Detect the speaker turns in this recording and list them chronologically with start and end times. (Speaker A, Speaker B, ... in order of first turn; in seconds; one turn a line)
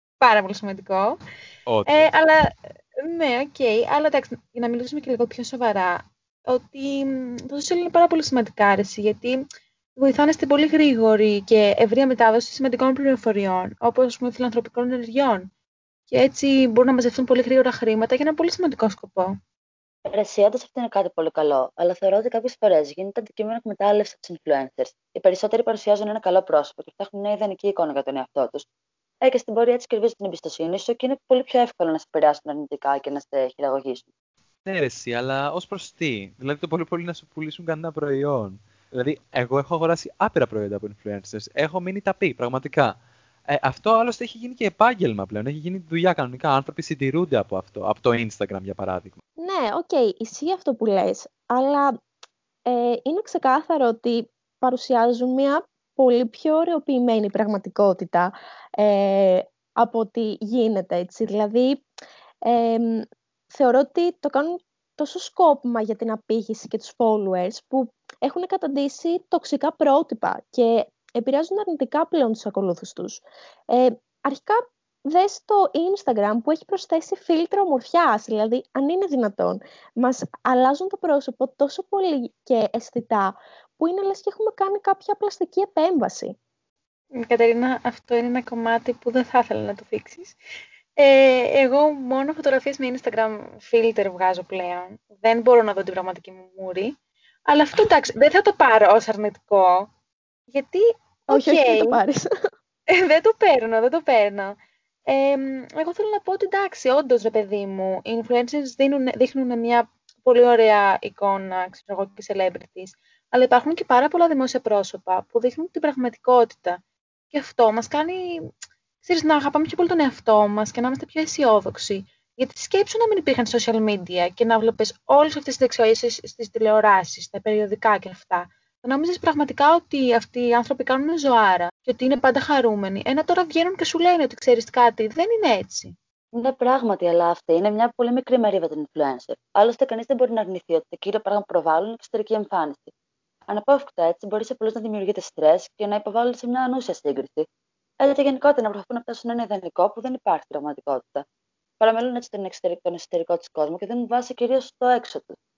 Speaker A: 0.2-1.2
Speaker B: 1.7-2.1
Speaker A: 1.9-2.5
Speaker A: 3.0-9.4
Speaker A: 9.9-15.5
Speaker A: 16.1-19.3
Speaker C: 20.1-28.6
Speaker C: 29.2-34.1
Speaker B: 34.6-43.0
Speaker B: 43.5-49.2
Speaker D: 49.4-52.0
Speaker D: 52.7-61.8
Speaker D: 62.4-86.3
Speaker A: 87.1-90.3
Speaker A: 91.0-96.9
Speaker A: 97.5-99.9
Speaker A: 100.5-102.0
Speaker D: 101.3-102.2
Speaker A: 102.9-104.5
Speaker A: 105.1-116.8
Speaker A: 117.3-118.2
Speaker A: 119.0-135.9
Speaker C: 136.3-142.9
Speaker C: 143.5-147.4
Speaker C: 148.0-151.2
Speaker C: 151.8-155.3